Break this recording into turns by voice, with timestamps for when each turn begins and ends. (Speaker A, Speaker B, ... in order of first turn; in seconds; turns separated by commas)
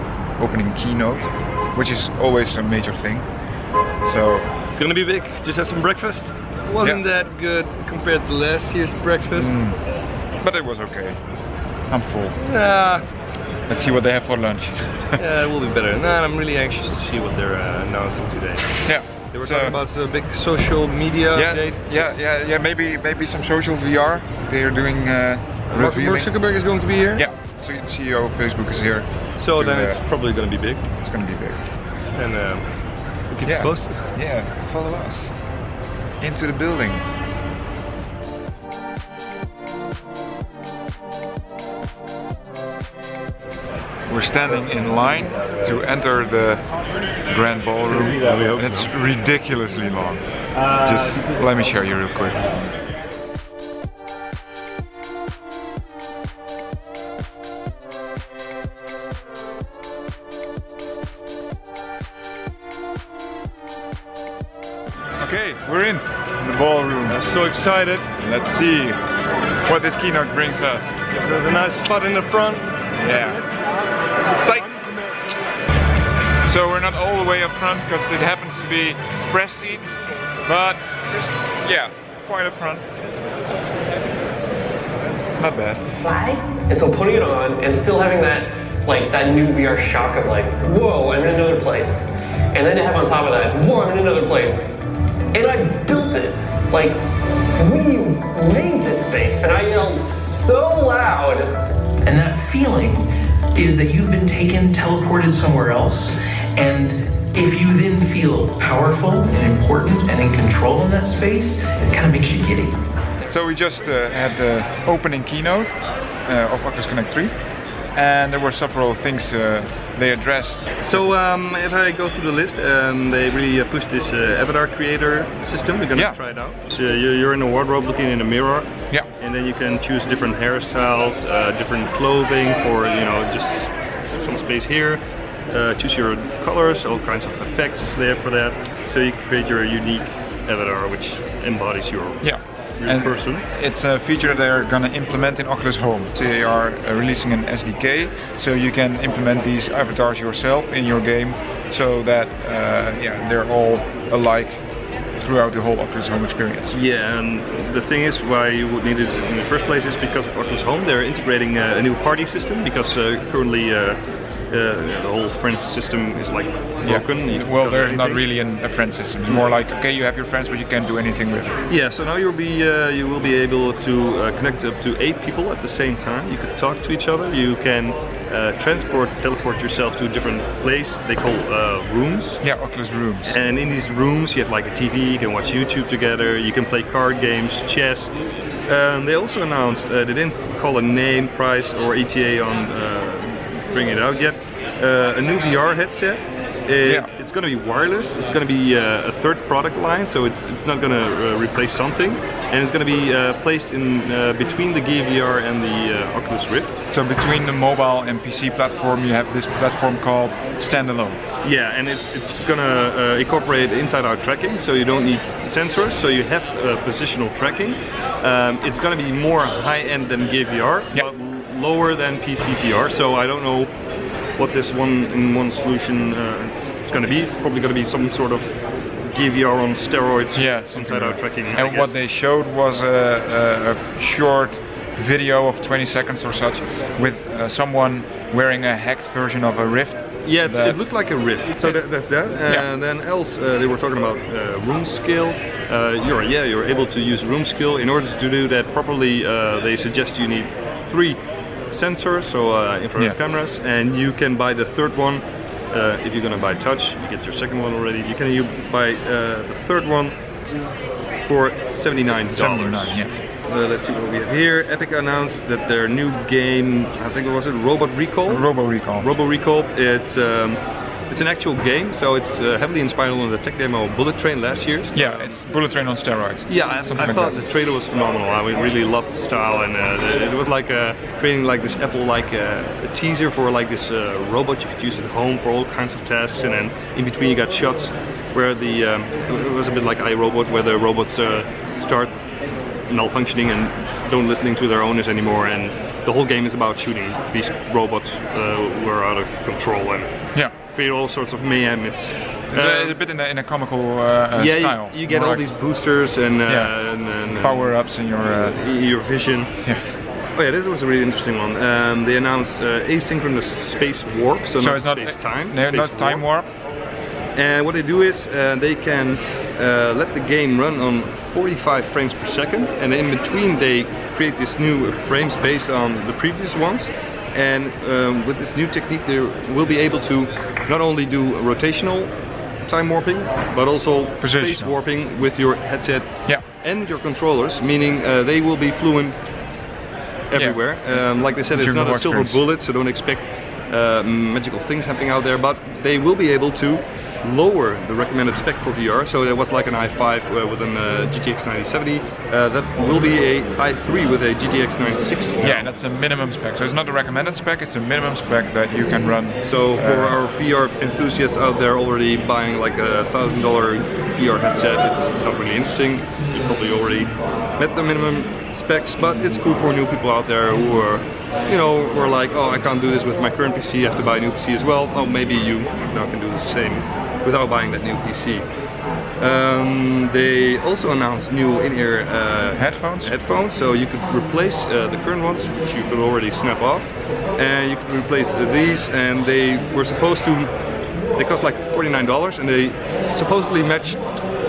Speaker A: 0.4-3.3, Speaker A: 4.0-4.5, Speaker B: 4.7-9.6, Speaker A: 9.3-9.8, Speaker A: 10.4-11.2, Speaker A: 11.9-12.4, Speaker B: 12.4-13.0, Speaker A: 13.7-15.2, Speaker B: 15.2-18.7, Speaker A: 18.8-19.8, Speaker B: 19.3-22.2, Speaker A: 21.3-26.3, Speaker B: 25.7-27.3, Speaker A: 27.1-30.0, Speaker B: 29.4-30.8, Speaker A: 31.0-31.6, Speaker B: 32.1-34.1, Speaker A: 33.5-35.3, Speaker A: 36.2-37.0, Speaker A: 44.1-46.6, Speaker A: 47.3-52.5, Speaker B: 48.2-48.9, Speaker A: 65.2-67.2, Speaker B: 67.1-68.1, Speaker A: 68.2-69.0, Speaker A: 69.7-71.0, Speaker B: 71.1-72.7, Speaker A: 73.0-73.4, Speaker A: 74.3-75.0, Speaker A: 76.5-82.9, Speaker A: 85.4-86.0, Speaker C: 86.0-94.6, Speaker C: 95.3-97.0, Speaker C: 97.6-101.5, Speaker D: 102.0-103.0, Speaker D: 103.5-112.7, Speaker A: 113.3-115.7, Speaker A: 116.2-117.3, Speaker A: 117.9-121.1, Speaker B: 120.8-143.4, Speaker A: 142.2-154.6, Speaker A: 155.2-156.8, Speaker B: 156.7-168.2, Speaker A: 166.8-171.6, Speaker B: 171.7-182.4, Speaker A: 182.4-183.3, Speaker B: 183.2-188.1, Speaker B: 188.7-206.8, Speaker A: 196.8-197.1, Speaker A: 206.9-211.2, Speaker B: 211.4-223.7, Speaker B: 224.3-232.0, Speaker A: 230.3-241.0, Speaker B: 240.2-251.2, Speaker B: 251.7-260.1, Speaker B: 261.2-275.4, Speaker A: 262.3-263.1, Speaker A: 268.3-269.1, Speaker A: 274.9-277.4, Speaker B: 276.5-292.2, Speaker B: 292.9-303.0, Speaker A: 302.5-305.6, Speaker B: 304.4-307.8, Speaker A: 306.4-306.7, Speaker A: 307.4-308.6, Speaker B: 308.3-309.5, Speaker B: 310.3-316.2, Speaker A: 314.6-316.5, Speaker B: 317.4-339.2, Speaker A: 334.2-334.8, Speaker B: 340.3-355.7, Speaker A: 340.4-342.4, Speaker A: 355.4-360.2, Speaker B: 359.4-378.4, Speaker B: 379.2-390.6, Speaker A: 382.6-383.1, Speaker B: 391.1-394.1